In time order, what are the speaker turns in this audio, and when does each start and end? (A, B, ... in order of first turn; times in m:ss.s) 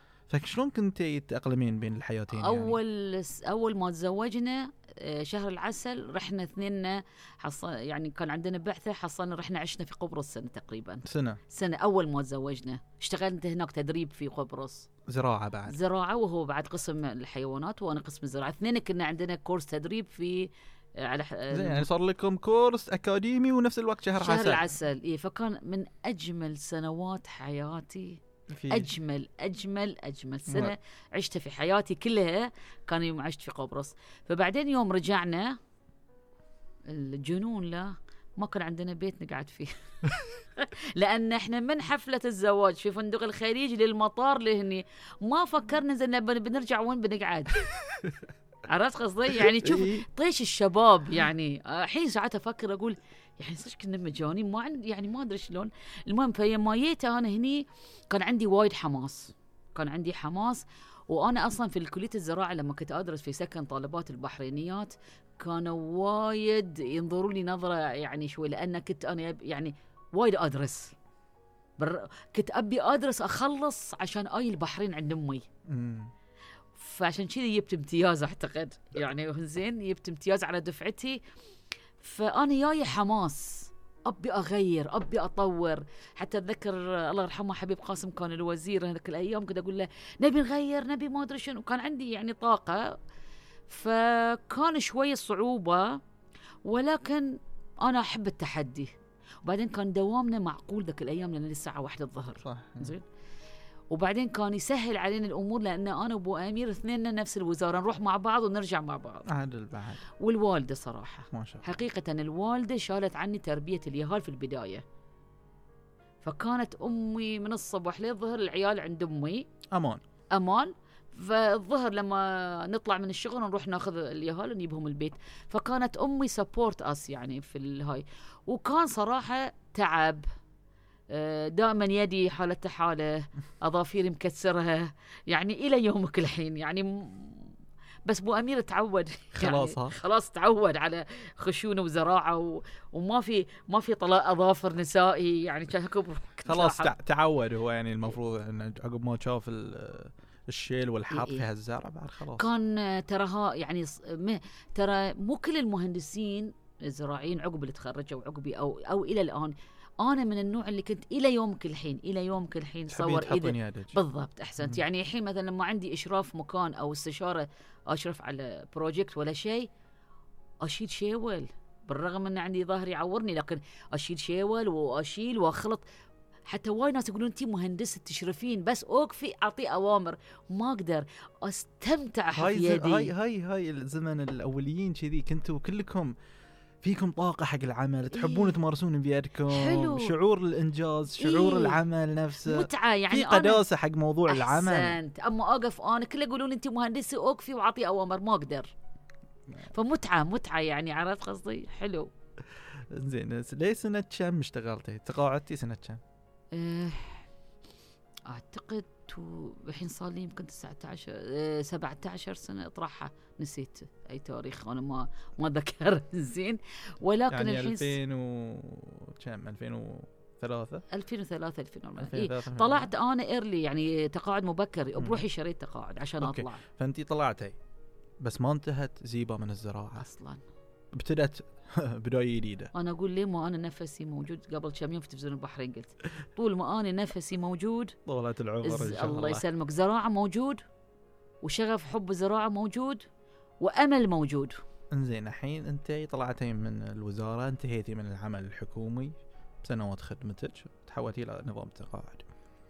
0:00.3-0:02.8 A
0:02.3-0:14.9 B
0:11.0-0:11.4 A
0:15.1-0:15.8 A
0:15.7-0:21.9 B
0:21.5-0:24.6 A
0:24.2-0:35.6 B
0:28.5-0:28.9 A
0:30.5-0:30.8 A
0:36.9-0:39.7 B
0:40.6-0:47.6 B
0:47.7-0:48.1 A
0:48.6-1:11.0 B
0:49.4-0:50.0 A
1:11.8-1:15.5 B
1:15.7-1:16.1 A
1:16.8-1:21.2 B
1:22.0-1:33.0 B
1:33.7-1:36.0 B
1:36.6-1:43.1 B
1:42.4-1:42.9 A
1:43.9-1:49.3 B
1:49.3-1:50.0 A
1:50.1-1:54.8 B
1:51.3-1:51.7 A
1:56.2-1:59.5 B
1:59.7-2:00.0 A
2:00.3-2:10.3 B
2:11.1-2:17.5 B
2:18.1-2:26.9 B
2:19.3-2:20.0 A
2:26.5-2:32.5 A
2:31.1-2:31.4 B
2:32.4-2:49.7 B
2:42.9-2:44.0 A
2:50.6-2:55.8 B
2:56.5-3:03.1 B
3:02.3-3:06.1 A
3:06.8-3:15.0 A
3:08.1-3:08.6 B
3:09.5-3:10.1 B
3:11.2-3:11.8 B
3:12.4-3:13.6 B
3:14.3-3:18.7 B
3:19.7-3:22.1 B
3:22.6-3:26.0 A
3:26.5-3:27.3 B
3:28.3-3:38.0 B
3:37.3-3:40.8 A
3:40.9-3:46.6 B
3:42.0-3:42.9 A
3:45.0-3:45.2 A
3:46.2-3:47.6 A
3:48.2-3:50.1 A
3:50.0-3:50.4 B
3:50.9-3:52.7 A
3:52.7-3:58.0 B
3:58.1-3:59.4 A
3:58.6-4:00.6 B
4:01.4-4:03.0 B
4:03.6-4:04.6 B
4:04.9-4:12.3 A